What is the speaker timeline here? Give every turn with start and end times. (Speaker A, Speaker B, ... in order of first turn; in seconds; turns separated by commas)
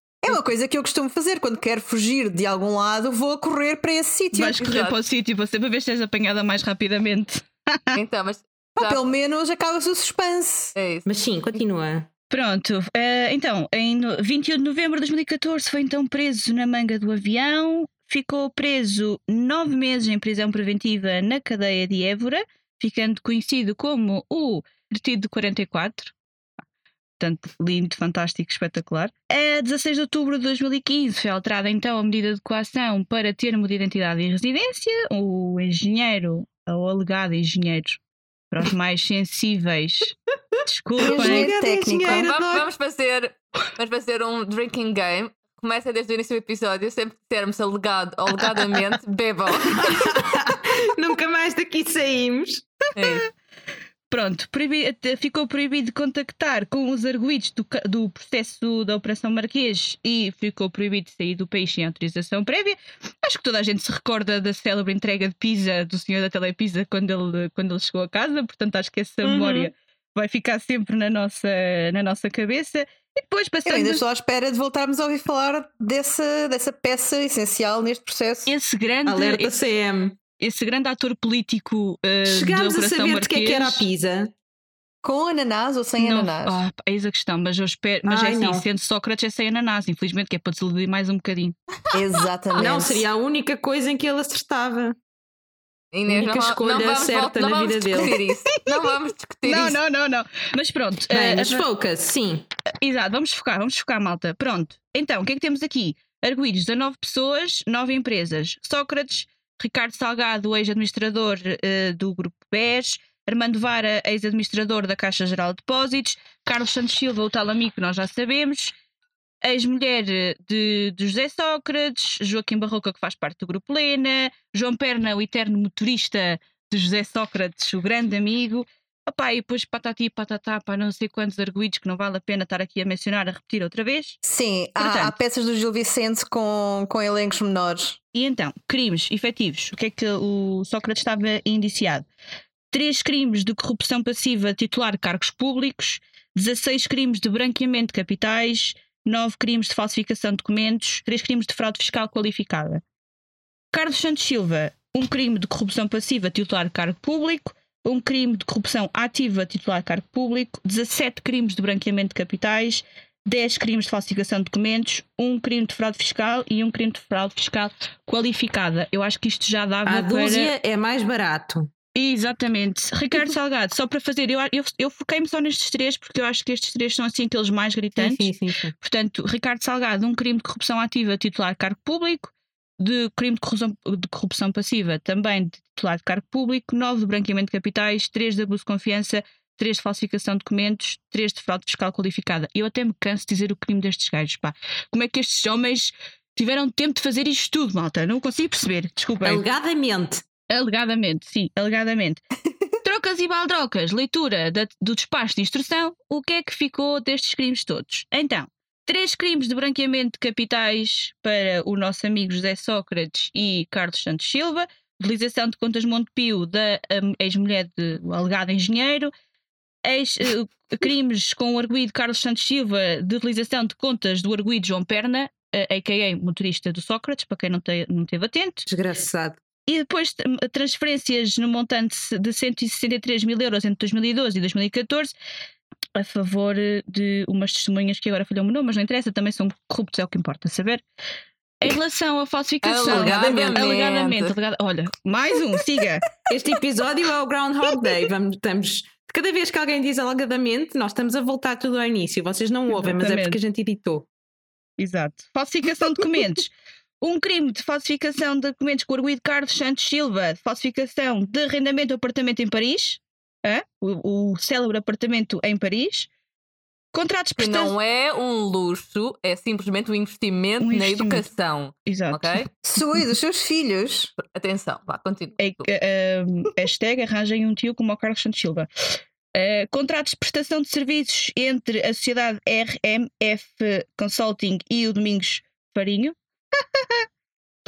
Speaker A: 0.2-4.6, Speaker B: 4.3-8.0, Speaker C: 4.5-5.0, Speaker C: 8.0-9.0, Speaker A: 8.8-10.8, Speaker C: 10.8-11.1, Speaker D: 11.1-12.1, Speaker B: 12.3-26.1, Speaker B: 27.2-40.1, Speaker B: 40.7-41.5, Speaker D: 41.0-42.7, Speaker A: 41.0-42.3, Speaker C: 42.1-50.3, Speaker D: 49.8-52.6, Speaker C: 53.0-53.3, Speaker B: 54.1-74.0, Speaker A: 69.2-69.7, Speaker A: 73.7-78.5, Speaker B: 78.5-79.5, Speaker D: 79.1-80.2, Speaker B: 80.4-83.8, Speaker D: 82.2-84.3, Speaker A: 85.0-86.6, Speaker B: 86.0-91.6, Speaker D: 88.1-88.7, Speaker A: 91.9-93.1, Speaker D: 92.6-95.0, Speaker C: 95.9-99.8, Speaker D: 96.1-98.1, Speaker B: 98.6-98.9, Speaker B: 99.5-101.7, Speaker D: 101.1-102.5, Speaker B: 102.8-118.8, Speaker B: 119.4-134.2, Speaker A: 134.2-138.0, Speaker B: 134.8-135.1, Speaker B: 138.1-142.1, Speaker B: 142.7-152.8, Speaker B: 153.7-170.5, Speaker D: 169.8-171.7, Speaker B: 171.9-199.4, Speaker D: 178.0-178.7, Speaker D: 199.2-200.2, Speaker B: 200.5-202.2, Speaker B: 202.8-219.1, Speaker B: 219.8-228.6, Speaker D: 228.7-229.4, Speaker B: 229.7-235.1, Speaker B: 236.0-240.8, Speaker B: 241.6-246.1, Speaker C: 242.6-244.3, Speaker D: 242.9-243.6, Speaker D: 246.3-254.1, Speaker B: 252.7-253.4, Speaker B: 254.8-266.1, Speaker B: 266.9-267.7, Speaker C: 267.4-272.5, Speaker B: 270.6-271.3, Speaker B: 271.9-272.4, Speaker A: 272.6-274.1, Speaker C: 274.2-275.7, Speaker B: 275.4-278.7, Speaker B: 279.3-287.1